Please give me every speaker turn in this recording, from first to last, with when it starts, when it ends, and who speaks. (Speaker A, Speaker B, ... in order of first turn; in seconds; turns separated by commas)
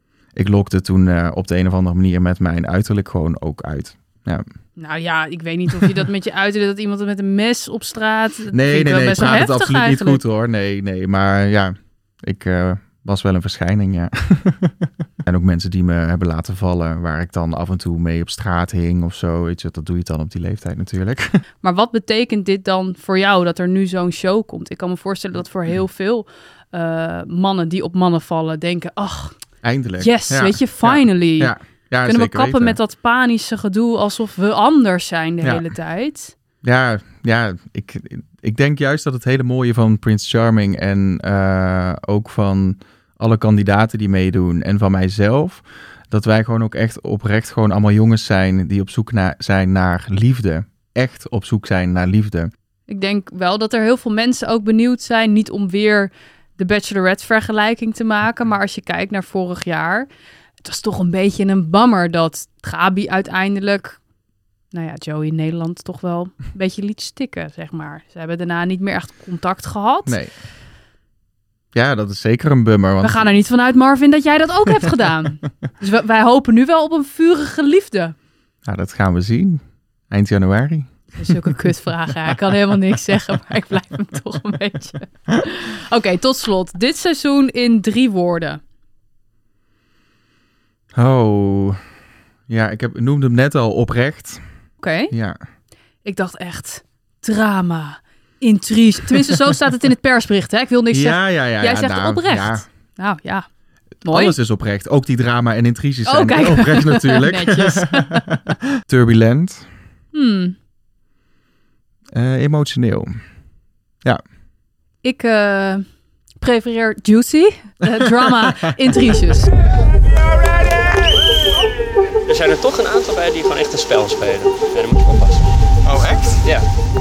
Speaker A: 0.3-4.4, Speaker B: 4.8-10.2, Speaker A: 8.5-21.4, Speaker B: 21.6-29.3, Speaker A: 29.6-32.8, Speaker B: 30.0-31.5, Speaker B: 32.0-36.3, Speaker A: 36.6-52.5, Speaker B: 52.9-60.1, Speaker B: 60.6-64.0, Speaker B: 64.7-70.2, Speaker A: 70.0-70.3, Speaker A: 71.7-73.3, Speaker B: 73.0-78.1, Speaker A: 78.7-81.3, Speaker B: 81.1-88.6, Speaker A: 90.9-91.8, Speaker A: 92.5-94.4, Speaker B: 94.8-95.1, Speaker A: 95.1-95.4, Speaker B: 96.0-103.5, Speaker A: 100.9-102.6, Speaker B: 104.0-104.3, Speaker A: 104.0-109.7, Speaker B: 106.0-108.3, Speaker B: 110.1-110.5, Speaker A: 112.1-113.1, Speaker B: 115.0-115.8, Speaker B: 116.4-119.5, Speaker C: 122.3-125.5, Speaker A: 125.8-126.4